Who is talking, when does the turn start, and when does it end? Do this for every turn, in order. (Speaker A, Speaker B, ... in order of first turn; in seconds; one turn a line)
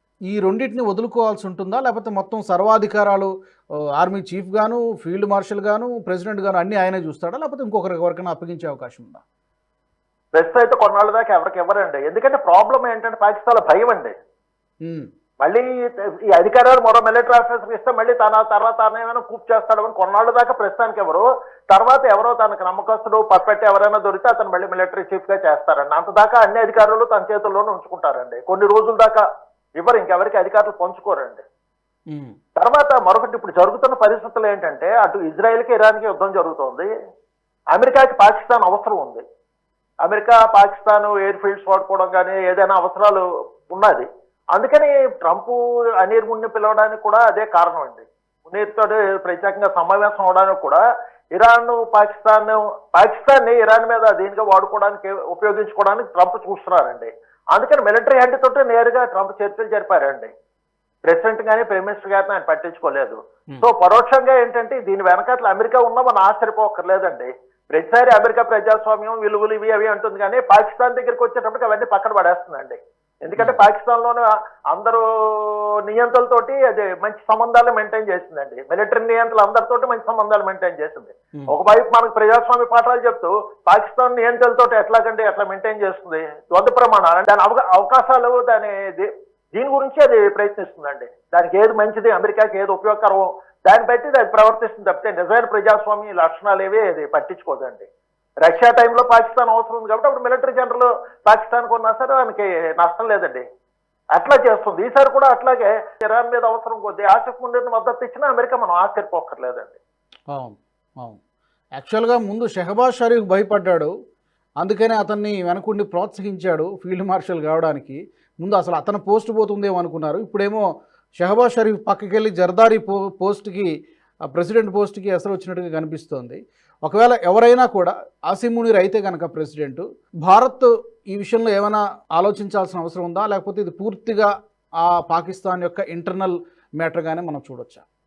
Speaker A: 0.3-3.3
Speaker A: 4.0-9.2
Speaker B: 10.3-14.1
Speaker A: 14.8-15.1
Speaker B: 15.4-15.7
Speaker B: 16.3-29.2
Speaker B: 29.8-31.4
Speaker A: 32.1-32.3
Speaker B: 32.6-36.9
Speaker B: 37.7-39.2
Speaker B: 40.0-50.8
Speaker B: 51.4-60.3
Speaker B: 61.0-97.9
Speaker B: 98.4-103.4
Speaker B: 104.2-109.8
Speaker A: 110.3-111.2
Speaker A: 111.8-113.9
Speaker A: 114.6-120.6
Speaker A: 121.2-123.7
Speaker A: 124.3-137.8